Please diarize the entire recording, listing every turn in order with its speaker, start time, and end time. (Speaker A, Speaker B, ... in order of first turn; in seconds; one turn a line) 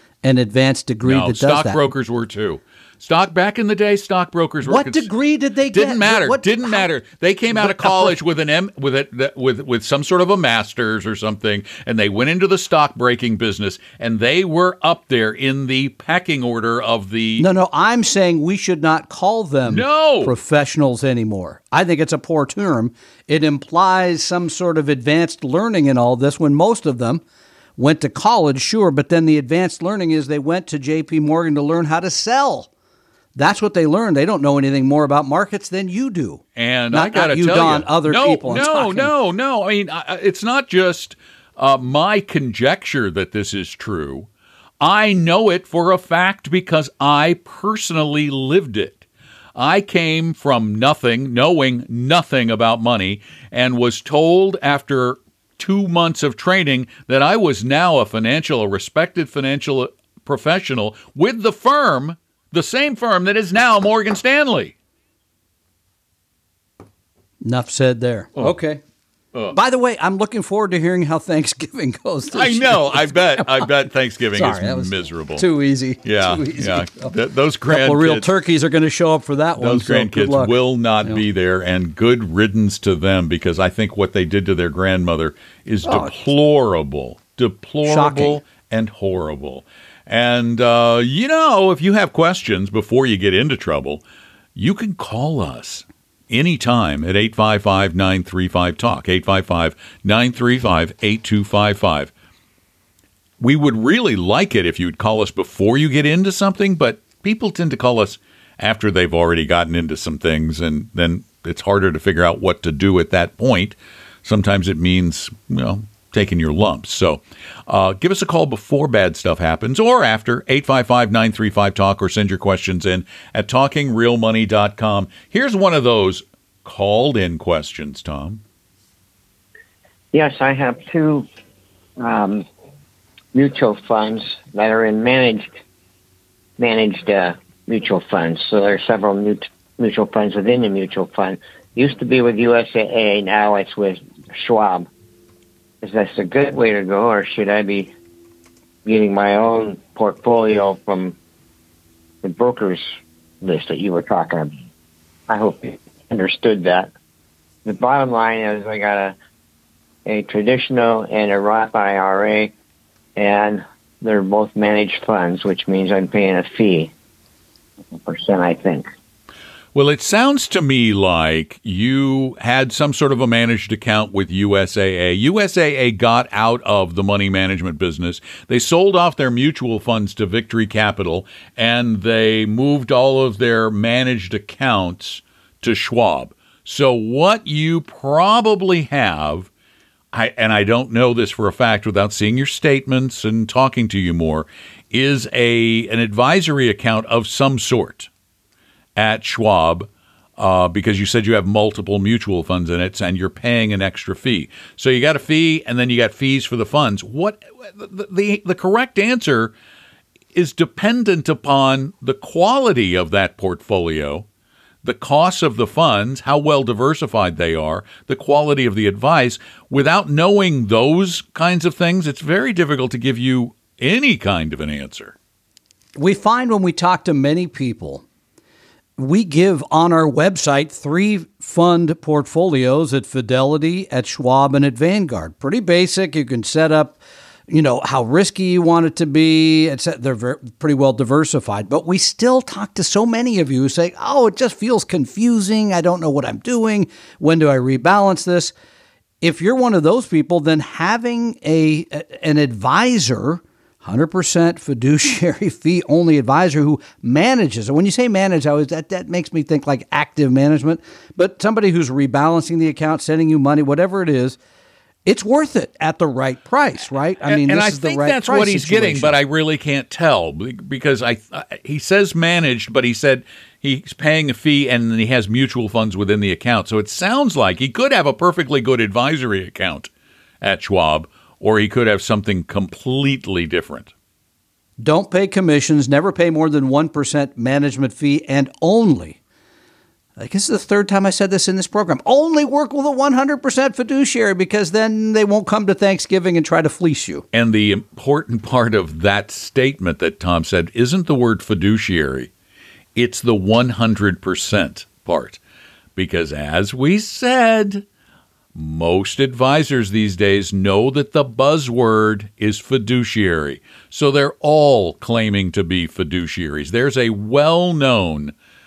Speaker A: 0.2-1.8
Speaker B: 1.0-5.1
Speaker A: 4.6-6.9
Speaker B: 5.7-17.5
Speaker A: 7.5-8.2
Speaker A: 17.4-27.2
Speaker B: 19.6-20.4
Speaker A: 27.8-32.7
Speaker A: 33.3-39.1
Speaker B: 36.5-44.3
Speaker B: 44.8-49.0
Speaker B: 49.5-64.7
Speaker A: 67.4-68.8
Speaker A: 69.5-73.7
Speaker B: 72.3-75.5
Speaker A: 74.3-77.1
Speaker B: 76.0-78.3
Speaker A: 77.7-81.2
Speaker B: 79.6-94.0
Speaker A: 85.8-86.2
Speaker A: 87.8-88.4
Speaker B: 94.5-102.1
Speaker B: 103.4-128.4
Speaker C: 130.1-131.3
Speaker C: 132.0-132.4
Speaker C: 133.3-135.5
Speaker C: 136.6-144.9
Speaker C: 145.8-147.9
Speaker C: 148.8-151.2
Speaker C: 152.2-152.8
Speaker C: 153.4-154.5
Speaker C: 155.3-156.9
Speaker C: 157.6-159.2
Speaker C: 160.0-162.5
Speaker C: 163.2-166.9
Speaker C: 167.9-168.9
Speaker B: 169.7-189.5
Speaker B: 190.1-198.1
Speaker B: 198.9-209.5
Speaker B: 210.3-214.3
Speaker B: 214.8-225.1
Speaker A: 225.9-228.0
Speaker A: 229.0-248.5
Speaker A: 249.2-264.4
Speaker A: 265.1-269.2
Speaker B: 267.2-279.9
Speaker B: 280.4-283.9
Speaker A: 284.8-289.2
Speaker A: 290.2-297.2
Speaker B: 297.3-302.3
Speaker B: 302.9-305.4
Speaker B: 305.9-307.9
Speaker B: 308.5-318.3